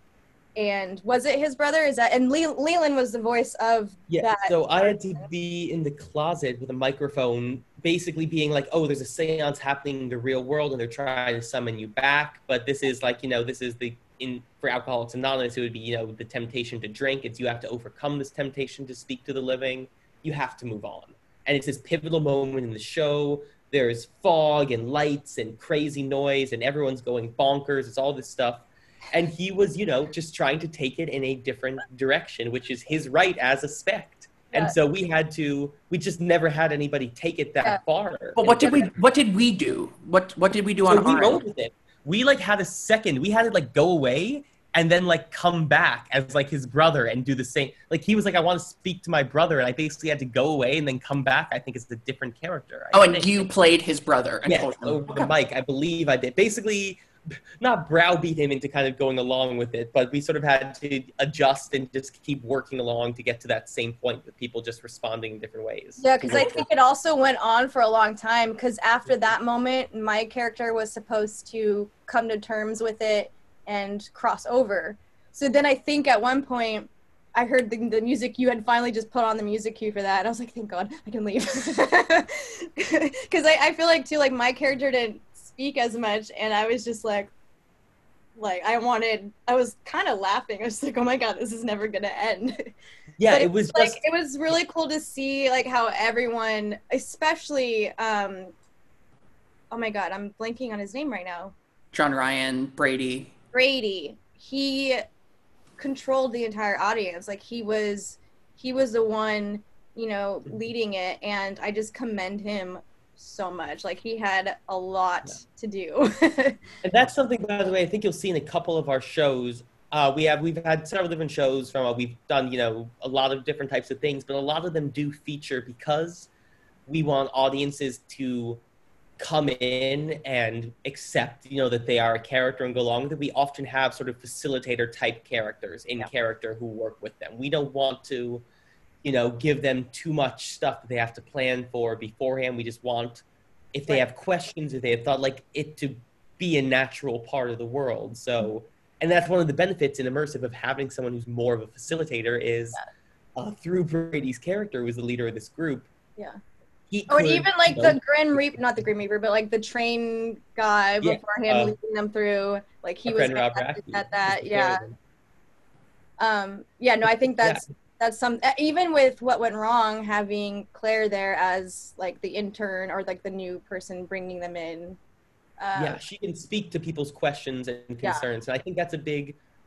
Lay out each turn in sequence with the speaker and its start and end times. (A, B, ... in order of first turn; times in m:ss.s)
0:00.6-0:05.2 A
0:04.1-0:38.9 B
0:34.5-0:34.8 A
0:38.4-0:41.4 C
0:40.9-0:53.5 B
0:52.9-0:55.3 C
0:54.4-0:57.0 B
0:57.6-1:06.6 B
1:06.0-1:27.3 A
1:28.4-1:32.7 A
1:33.2-1:34.0 B
1:33.3-1:38.5 A
1:39.7-1:41.5 A
1:41.9-1:43.3 C
1:43.5-1:45.0 A
1:45.8-1:56.6 A
1:56.8-2:06.3 B
2:06.9-2:08.6 B
2:09.2-2:18.4 B
2:19.0-2:32.8 B
2:33.4-2:35.9 B
2:36.9-2:38.0 B
2:37.1-2:44.8 A
2:41.0-2:41.7 B
2:43.0-2:44.9 B
2:46.2-2:55.0 A
2:47.4-2:47.7 B
2:55.6-2:56.0 A
2:55.8-2:59.4 B